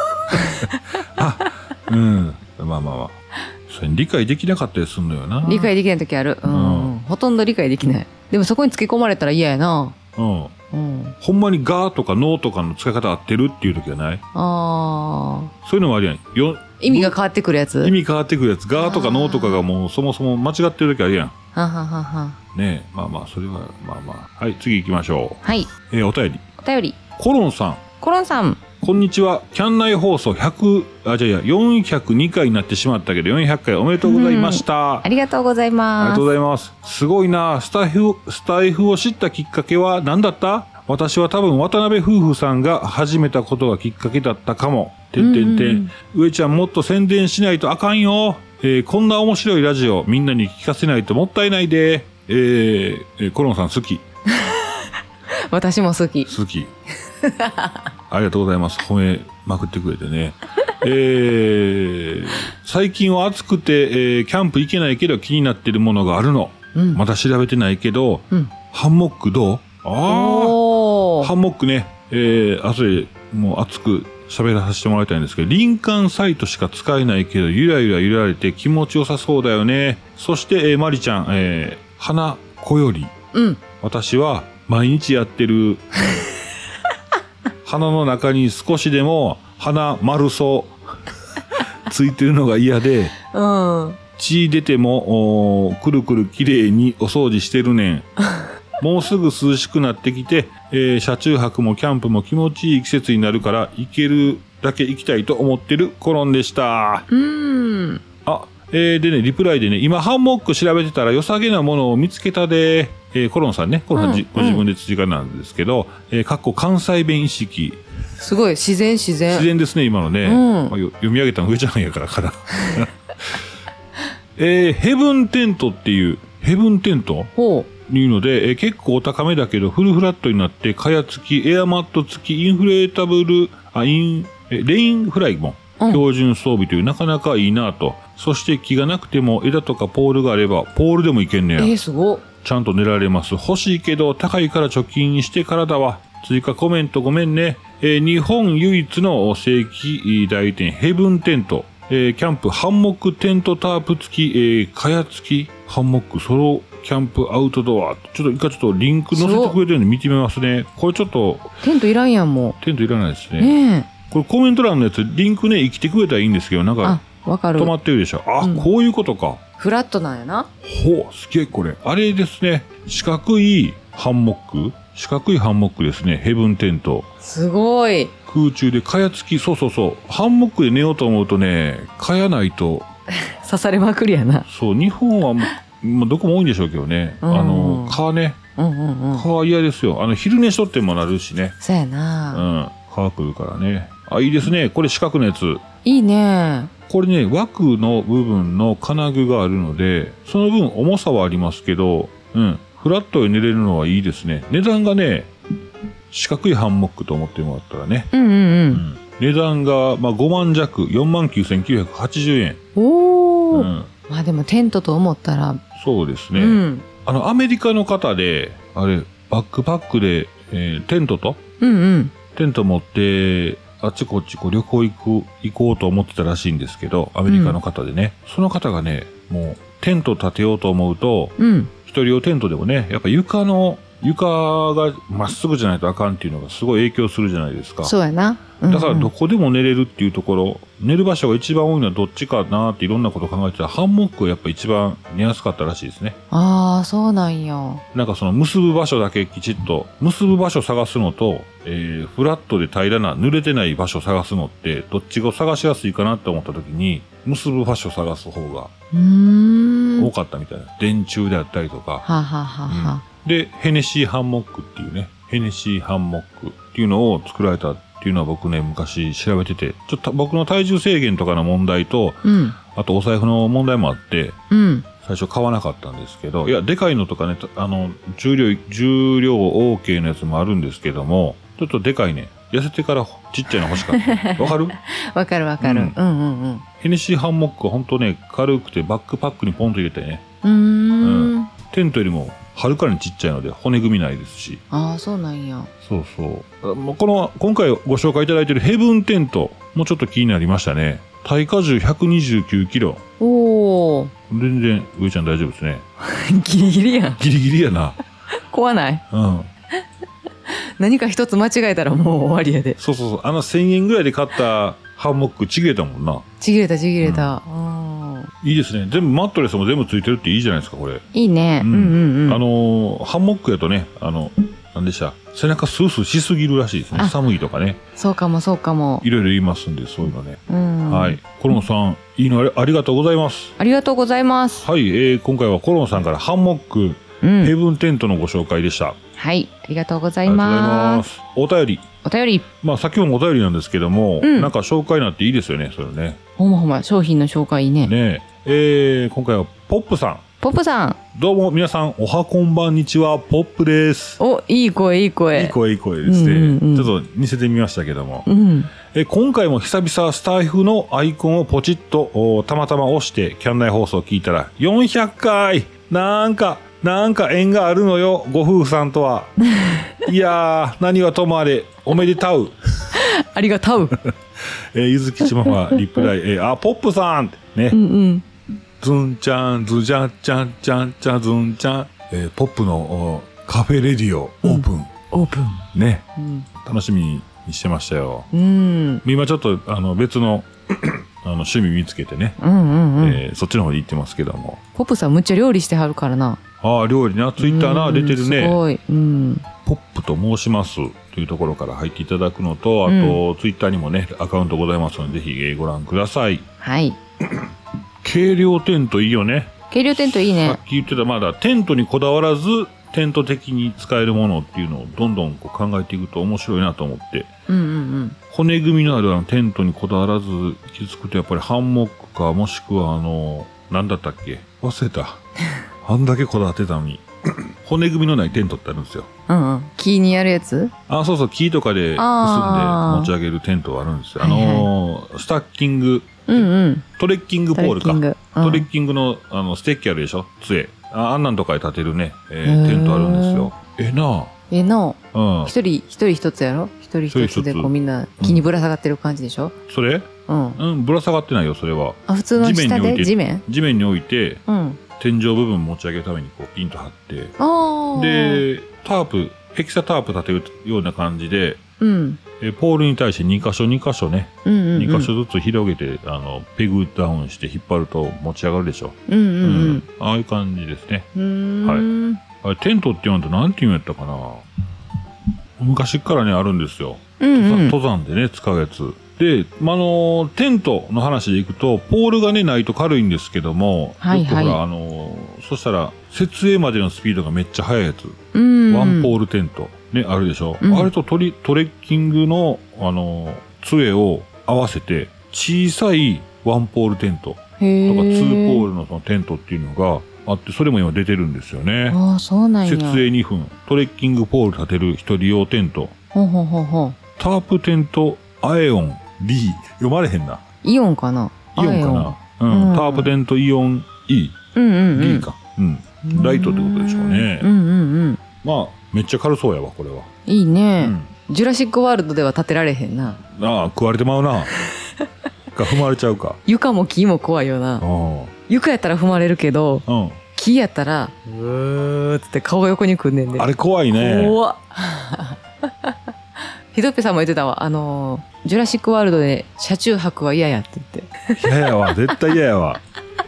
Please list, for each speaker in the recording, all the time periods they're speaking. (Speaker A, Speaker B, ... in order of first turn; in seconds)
Speaker A: 0.3-3.1, 3.7-5.7, 6.5-6.9, 10.2-10.5, 11.2-14.2, 15.6-17.1, 17.8-21.3, 22.5-26.4, 27.2-27.8, 28.8-35.1, 36.0-54.0, 56.3-56.7, 58.1-70.6, 71.2-83.1, 83.8-85.8, 87.6-90.7, 91.9-93.1, 94.2-98.1, 98.8-107.0, 108.2-117.8, 119.3-123.4, 124.4-141.7, 142.4-161.6, 162.6-167.0, 167.6-169.4, 170.6-177.1, 178.3-182.9, 184.5-188.4, 189.1-191.6, 192.3-195.6, 196.9-205.3, 206.1-208.1, 208.7-212.6, 213.5-213.9, 215.8-221.4, 222.3-237.9, 238.7-246.2, 247.9-258.7, 260.0-262.0, 262.7-274.4, 275.0-284.8, 285.6-285.9, 286.8-290.2, 291.0-294.6, 295.8-303.0, 304.3-305.8, 307.2-308.0, 309.1-309.5, 312.8-316.2, 317.0-317.3, 318.4-321.0, 321.6-327.8, 329.0-333.5, 334.6-339.0, 340.2-341.8, 342.6-346.2, 347.8-350.2, 351.1-354.2, 355.3-358.3, 358.8-369.3, 370.0-373.0, 374.1-377.8, 378.8-384.9, 385.7-388.3, 389.0-392.4, 393.0-394.6, 396.6-398.6, 399.6-406.4, 408.0-417.3, 418.3-425.2, 425.8-429.1, 430.9-436.4, 437.0-444.3, 445.1-445.5, 447.1-448.4, 449.7-454.4, 455.0-457.4, 457.9-461.6, 462.4-471.1, 472.4-474.4, 475.6-488.2, 488.7-502.0, 502.6-505.9, 507.2-510.4, 511.6-514.4, 514.9-517.5, 518.4-520.1, 520.8-521.1, 523.2-524.5, 525.5-526.4, 527.8-528.3, 529.9-530.2, 533.4-534.4, 541.3-542.8
Speaker B: 0.3-0.8, 5.4-9.9, 10.7-11.2, 14.3-15.5, 16.8-17.9, 18.7-19.7, 21.5-22.4, 25.4-25.7, 26.6-27.0, 28.0-28.6, 34.0-36.2, 45.2-45.9, 54.3-54.9, 55.5-56.3, 57.2-57.8, 66.7-67.0, 70.1-71.3, 83.3-83.6, 93.3-94.0, 107.1-108.0, 113.9-114.6, 118.2-119.5, 120.2-120.8, 127.3-127.7, 135.8-136.0, 141.6-142.2, 159.1-159.6, 161.6-162.6, 163.4-163.9, 166.8-167.7, 168.4-168.7, 169.6-170.5, 177.2-178.1, 183.3-184.5, 187.2-188.0, 188.6-189.2, 191.6-192.4, 195.8-196.7, 208.1-208.8, 212.8-215.6, 216.3-216.8, 221.6-222.1, 227.3-227.6, 231.4-231.7, 237.8-239.1, 246.3-247.8, 258.9-260.1, 262.0-263.0, 272.2-272.6, 274.5-274.9, 283.9-286.6, 290.4-291.5, 294.7-295.7, 303.2-304.1, 306.0-307.2, 308.5-309.0, 310.5-312.8, 316.4-318.3, 321.1-322.4, 327.9-329.0, 330.5-331.2, 333.6-334.6, 337.2-337.5, 339.1-341.0, 342.0-342.5, 344.2-344.5, 346.4-347.9, 350.4-351.0, 354.2-356.9, 358.2-358.7, 372.9-374.0, 377.7-378.2, 384.4-385.6, 386.2-386.5, 388.3-389.0, 392.4-393.2, 394.7-396.4, 397.4-399.4, 402.9-403.2, 406.6-407.0, 409.7-410.6, 417.5-418.2, 429.3-430.7, 432.0-433.1, 434.2-434.7, 436.3-436.9, 437.5-438.7, 442.4-443.5, 444.5-449.5, 450.3-450.6, 452.1-453.4, 454.5-454.8, 457.4-458.4, 461.8-462.2, 464.4-465.1, 469.1-469.8, 471.1-472.2, 477.2-477.8, 484.0-484.6, 488.3-489.1, 490.6-490.9, 497.6-498.7, 501.9-503.0, 506.1-507.0, 510.6-513.1, 514.5-515.3, 516.0-518.2, 520.2-523.2, 526.5-527.8, 528.5-535.9, 536.7-542.1